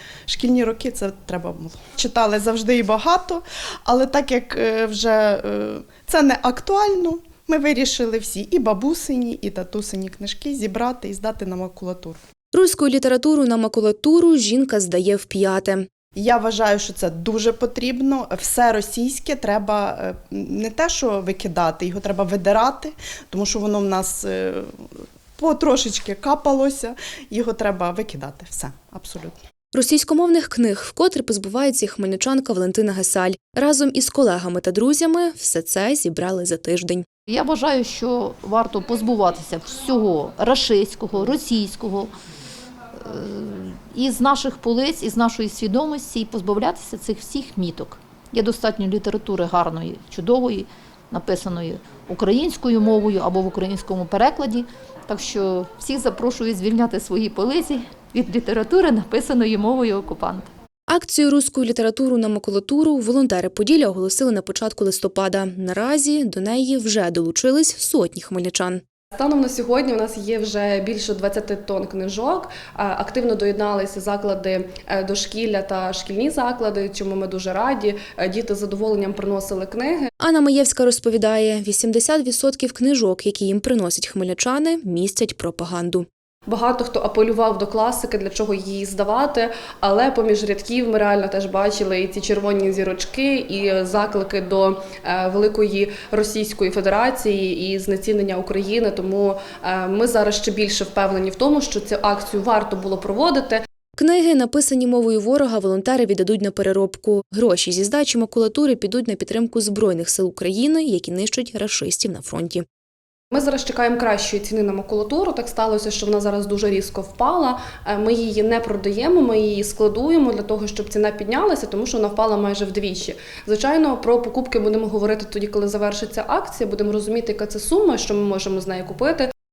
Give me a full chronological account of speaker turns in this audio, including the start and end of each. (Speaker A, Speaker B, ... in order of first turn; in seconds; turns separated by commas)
Speaker A: 0.3-12.2, Speaker B: 12.5-15.8, Speaker A: 16.1-24.7, Speaker A: 25.4-29.4, Speaker B: 29.7-37.0, Speaker C: 37.3-42.1, Speaker C: 43.0-60.5, Speaker B: 60.9-68.8, Speaker D: 69.1-80.1, Speaker B: 80.2-86.1, Speaker D: 86.5-103.6, Speaker B: 104.0-112.7, Speaker D: 113.3-129.3